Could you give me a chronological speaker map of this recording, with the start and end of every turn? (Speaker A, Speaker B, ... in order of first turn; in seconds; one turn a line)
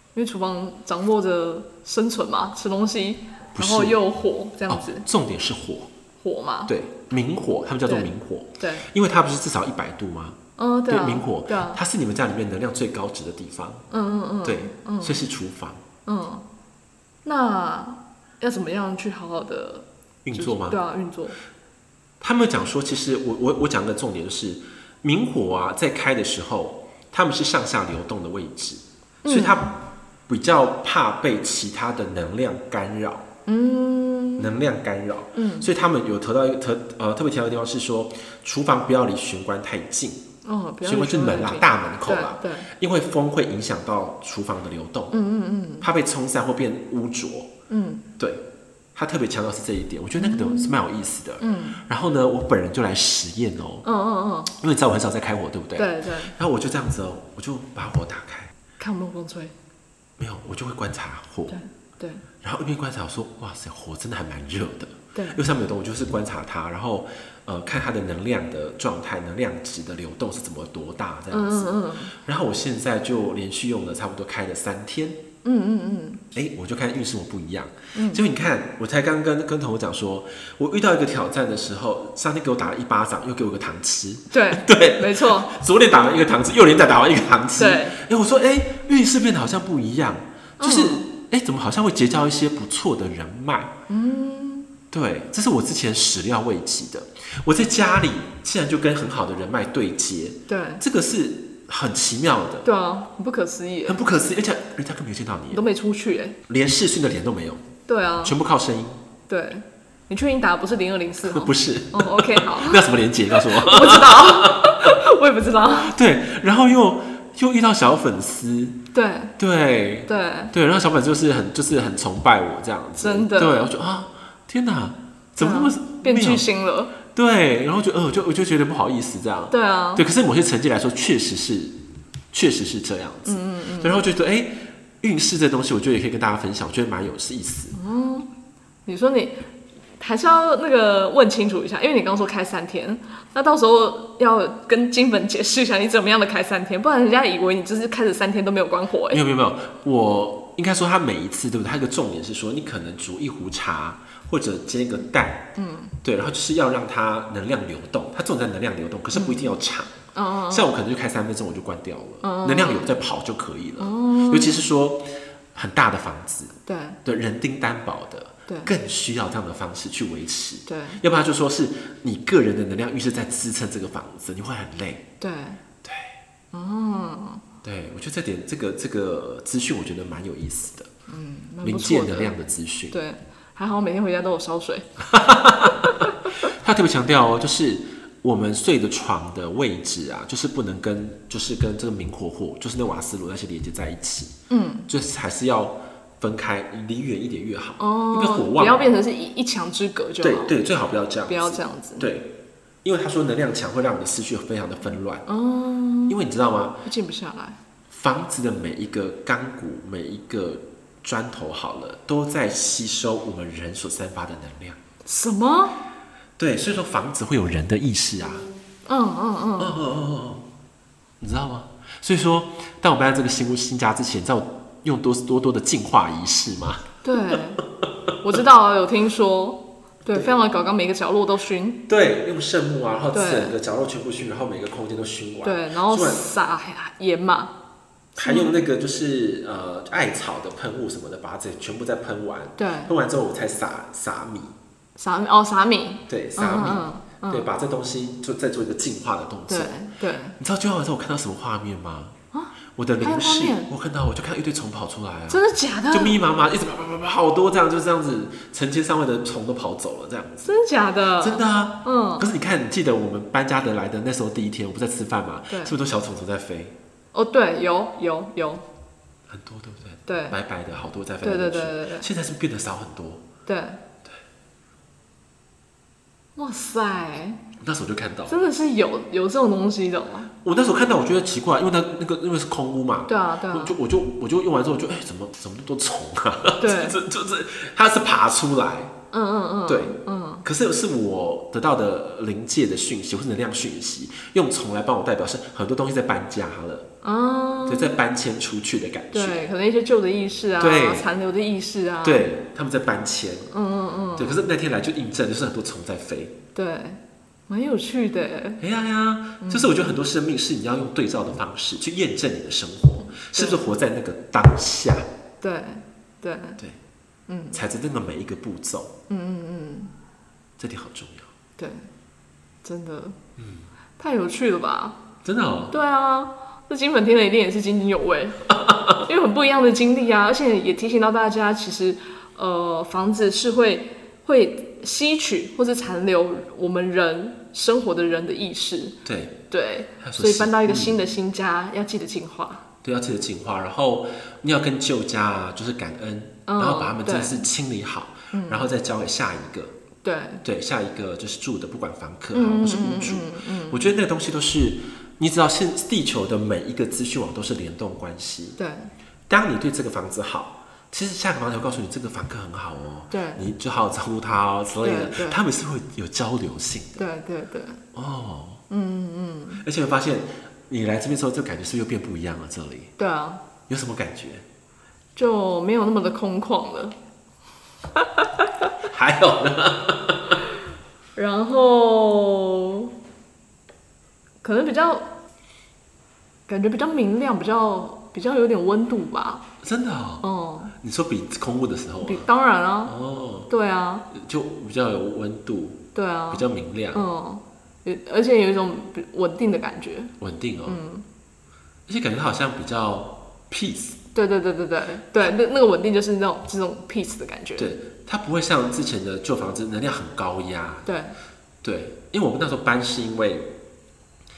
Speaker A: 0.1-5.1
Speaker B: 3.5-4.0
Speaker B: 4.7-5.9
Speaker A: 6.2-6.7
Speaker B: 6.7-10.4
Speaker A: 7.9-8.9
Speaker A: 10.6-11.8
Speaker B: 10.9-13.9
Speaker A: 13.9-15.2
Speaker B: 14.4-15.8
Speaker A: 16.1-16.4
Speaker A: 17.2-21.4
Speaker B: 20.2-20.8
Speaker B: 22.2-33.3
Speaker A: 29.2-29.7
Speaker A: 33.5-34.5
Speaker B: 34.4-40.2
Speaker A: 35.4-35.7
Speaker A: 40.4-42.7
Speaker B: 40.8-45.2
Speaker A: 45.1-45.9
Speaker B: 45.8-47.5
Speaker A: 47.7-48.1
Speaker B: 49.0-53.9
Speaker A: 50.2-50.8
Speaker A: 51.4-51.8
Speaker A: 53.8-54.5
Speaker B: 54.5-58.5
Speaker A: 55.8-56.4
Speaker A: 58.8-59.5
Speaker B: 60.2-61.6
Speaker A: 61.5-62.2
Speaker B: 62.4-75.2
Speaker A: 65.2-65.4
Speaker A: 71.3-72.1
Speaker A: 75.4-76.2
Speaker B: 76.3-93.7
Speaker A: 78.0-78.2
Speaker A: 84.3-85.5
Speaker A: 87.6-88.0
Speaker A: 90.6-91.1
Speaker A: 93.9-94.7
Speaker B: 94.9-102.7
Speaker A: 100.5-100.8
Speaker A: 102.6-104.0
Speaker B: 103.9-105.6
Speaker A: 105.5-106.4
Speaker B: 106.5-107.7
Speaker A: 107.9-108.3
Speaker B: 108.2-109.0
Speaker A: 109.3-116.0
Speaker B: 111.2-115.0
Speaker B: 115.8-118.8
Speaker A: 118.9-119.3
Speaker B: 119.4-126.5
Speaker A: 120.1-120.5
Speaker A: 123.0-123.6
Speaker A: 125.4-126.9
Speaker B: 127.1-131.8
Speaker A: 129.5-130.1
Speaker B: 132.3-137.8
Speaker A: 133.3-134.0
Speaker A: 137.7-138.3
Speaker A: 138.9-139.4
Speaker A: 140.0-149.2
Speaker B: 149.1-155.5
Speaker A: 155.6-155.9
Speaker B: 156.0-175.1
Speaker A: 159.1-159.6
Speaker A: 160.1-160.7
Speaker A: 162.2-162.9
Speaker A: 163.8-164.7
Speaker A: 166.7-167.0
Speaker A: 168.5-168.7
Speaker A: 170.7-171.0
Speaker A: 175.2-175.6
Speaker B: 175.8-176.2
Speaker A: 176.5-177.4
Speaker B: 177.6-180.9
Speaker A: 181.1-182.4
Speaker B: 181.6-183.0
Speaker A: 182.9-184.9
Speaker B: 185.0-194.4
Speaker A: 185.8-186.1
Speaker A: 194.5-194.9
Speaker B: 194.9-198.9
Speaker A: 197.8-200.6
Speaker B: 200.2-205.3
Speaker A: 201.3-202.1
Speaker A: 205.3-206.2
Speaker B: 206.1-206.8
Speaker A: 206.8-207.6
Speaker B: 207.9-214.8
Speaker A: 215.1-215.8
Speaker B: 216.4-218.5
Speaker A: 218.9-219.8
Speaker B: 219.6-220.4
Speaker B: 221.2-227.4
Speaker A: 227.0-227.6
Speaker A: 228.2-231.8
Speaker B: 231.9-236.3
Speaker A: 233.1-233.6
Speaker A: 235.4-237.5
Speaker A: 238.2-238.6
Speaker B: 238.2-244.6
Speaker A: 242.6-242.9
Speaker A: 245.0-247.5
Speaker B: 246.1-249.7
Speaker A: 249.5-250.4
Speaker B: 250.4-252.2
Speaker A: 252.3-253.7
Speaker B: 252.8-260.5
Speaker A: 255.3-256.2
Speaker A: 260.4-262.3
Speaker B: 261.2-266.8
Speaker A: 265.5-265.8
Speaker A: 267.1-268.6
Speaker B: 269.3-273.3
Speaker A: 270.1-270.4
Speaker A: 271.2-272.1
Speaker A: 273.5-273.8
Speaker A: 276.4-277.4
Speaker B: 277.6-278.4
Speaker A: 278.3-280.3
Speaker B: 280.4-288.9
Speaker A: 283.1-283.8
Speaker A: 286.6-287.0
Speaker A: 289.1-290.4
Speaker B: 289.7-296.9
Speaker A: 297.0-297.9
Speaker B: 297.7-299.4
Speaker A: 299.1-302.3
Speaker B: 300.6-301.1
Speaker B: 302.0-303.5
Speaker A: 303.5-304.4
Speaker B: 304.1-306.4
Speaker A: 306.5-308.6
Speaker B: 308.6-315.1
Speaker A: 309.4-309.9
Speaker A: 313.2-313.7
Speaker A: 315.4-316.6
Speaker A: 317.3-317.6
Speaker B: 317.5-318.9
Speaker A: 319.1-319.9
Speaker B: 320.6-321.3
Speaker A: 321.6-321.9
Speaker A: 322.6-323.2
Speaker B: 323.4-323.7
Speaker A: 324.0-325.0
Speaker B: 325.2-325.8
Speaker A: 325.7-328.4
Speaker B: 328.5-329.0
Speaker A: 329.0-339.0
Speaker B: 339.1-339.4
Speaker A: 339.5-342.6
Speaker B: 340.0-341.0
Speaker B: 342.8-349.8
Speaker A: 346.5-347.4
Speaker A: 348.3-348.7
Speaker A: 350.0-350.4
Speaker B: 350.4-358.6
Speaker A: 352.3-353.8
Speaker A: 358.6-358.9
Speaker B: 359.3-367.0
Speaker A: 363.1-363.4
Speaker A: 364.8-365.4
Speaker A: 367.0-367.8
Speaker B: 367.9-368.6
Speaker A: 368.7-369.7
Speaker B: 369.6-372.9
Speaker A: 373.0-373.4
Speaker B: 373.7-374.4
Speaker A: 375.2-377.0
Speaker A: 378.0-378.7
Speaker B: 378.8-380.4
Speaker A: 381.1-382.9
Speaker A: 384.4-385.1
Speaker A: 386.5-389.4
Speaker B: 389.6-390.3
Speaker A: 390.2-390.8
Speaker B: 390.8-392.3
Speaker A: 392.0-392.9
Speaker B: 392.9-393.5
Speaker A: 393.5-394.1
Speaker B: 394.1-397.1
Speaker A: 395.9-400.1
Speaker B: 400.2-400.8
Speaker A: 400.7-401.1
Speaker B: 401.9-404.0
Speaker A: 404.1-407.8
Speaker B: 407.6-410.9
Speaker A: 410.9-411.2
Speaker B: 411.6-413.6